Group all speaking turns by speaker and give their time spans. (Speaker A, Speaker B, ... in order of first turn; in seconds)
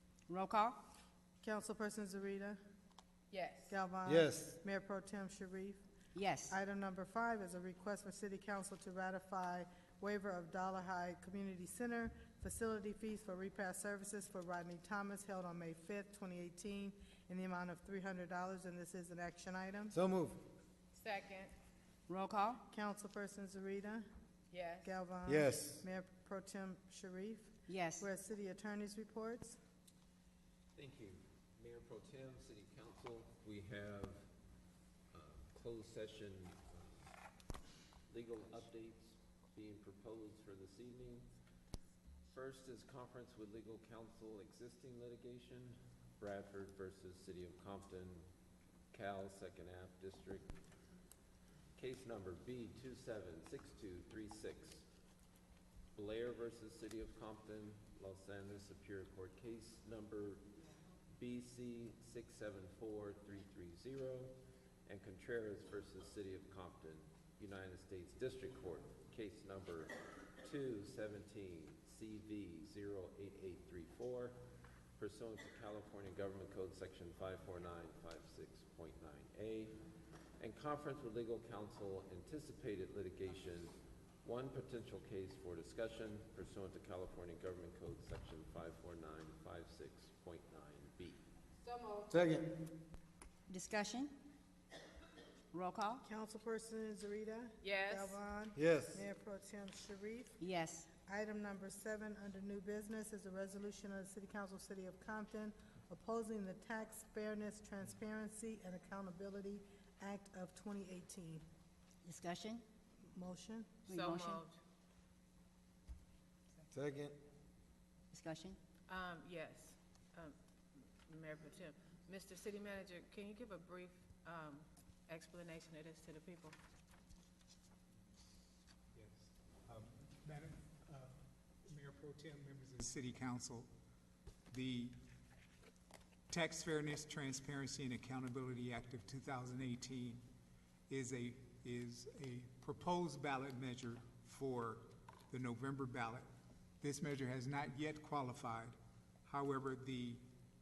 Speaker A: 0.3-0.8, 6.2-6.5, 22.1-22.6, 27.7-28.0, 93.5-94.1, 95.5-96.0, 100.4-100.9, 112.0-112.6, 113.9-114.4, 118.1-118.6
Speaker B: 1.4-2.6, 3.7-5.8, 6.5-19.9, 22.7-24.1, 24.8-29.6, 96.0-100.4, 101.0-111.4, 113.1-113.8
Speaker C: 3.3-3.7, 20.9-21.5, 24.5-24.9, 91.6-92.2, 97.6-98.2, 113.9-114.6, 118.9-120.3, 121.1-126.5
Speaker D: 4.0-4.6, 19.9-20.4, 25.3-25.8, 92.1-92.5, 98.5-99.0, 116.7-117.2
Speaker E: 30.7-34.3, 35.1-37.0, 38.1-41.3, 42.3-48.2, 48.9-50.5, 51.8-54.9, 55.9-60.5, 61.1-64.3, 64.8-74.4, 75.0-79.8, 80.4-91.2
Speaker F: 128.9-133.7, 134.5-135.0, 136.3-140.2, 140.9-146.3, 146.8-150.2